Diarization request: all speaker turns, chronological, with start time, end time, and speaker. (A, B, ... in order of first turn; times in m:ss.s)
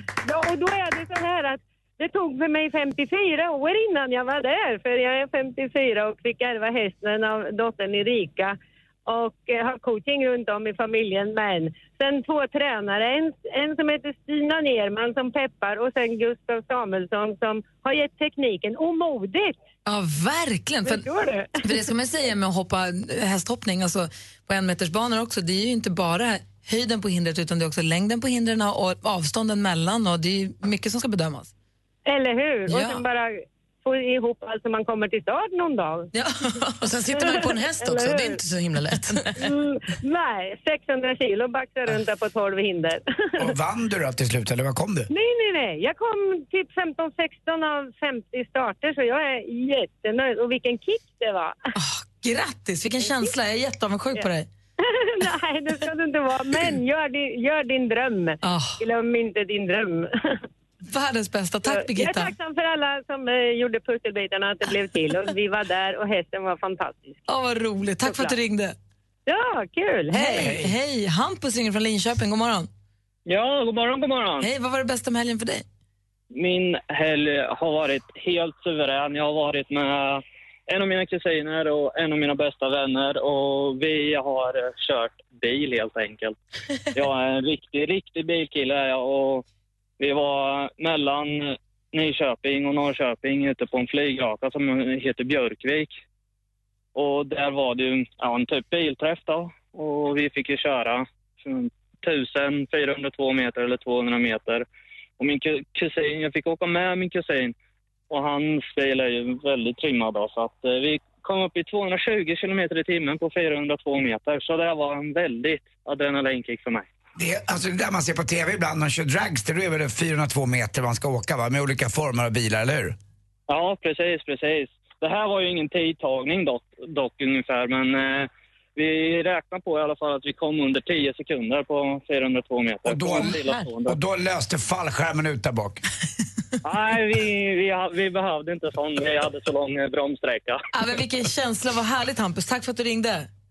0:00.2-0:19.6 A
0:19.8-0:21.0 B
0:20.9-0:21.6 A
0:21.6-0:31.5 B
0:32.0-0:36.1 A
0:32.7-0:33.0 B
0:36.1-0:36.8 B
0:36.8-0:39.3 C
0:37.1-0:38.4 A
0:39.3-0:43.4 A
0:43.4-0:45.1 D
0:45.1-0:51.6 A
0:51.7-0:54.5 B
0:54.8-1:00.1 A
0:58.4-0:58.8 B
1:00.8-1:02.3 B
1:01.7-1:07.2 A
1:07.3-1:08.8 B
1:08.0-1:08.4 A
1:09.3-1:10.6 A
1:10.1-1:12.7 B
1:10.3-1:10.7 D
1:13.3-1:14.5 E
1:14.4-1:15.6 B
1:16.3-1:26.4 E
1:26.9-1:29.4 E
1:30.0-1:35.9 E
1:37.0-1:44.6 E
1:45.2-1:47.5 E
1:48.1-1:56.8 E
1:57.2-2:03.0 D
2:03.5-2:14.0 E
2:12.8-2:15.8 D
2:16.6-2:20.6 E
2:20.7-2:23.3 B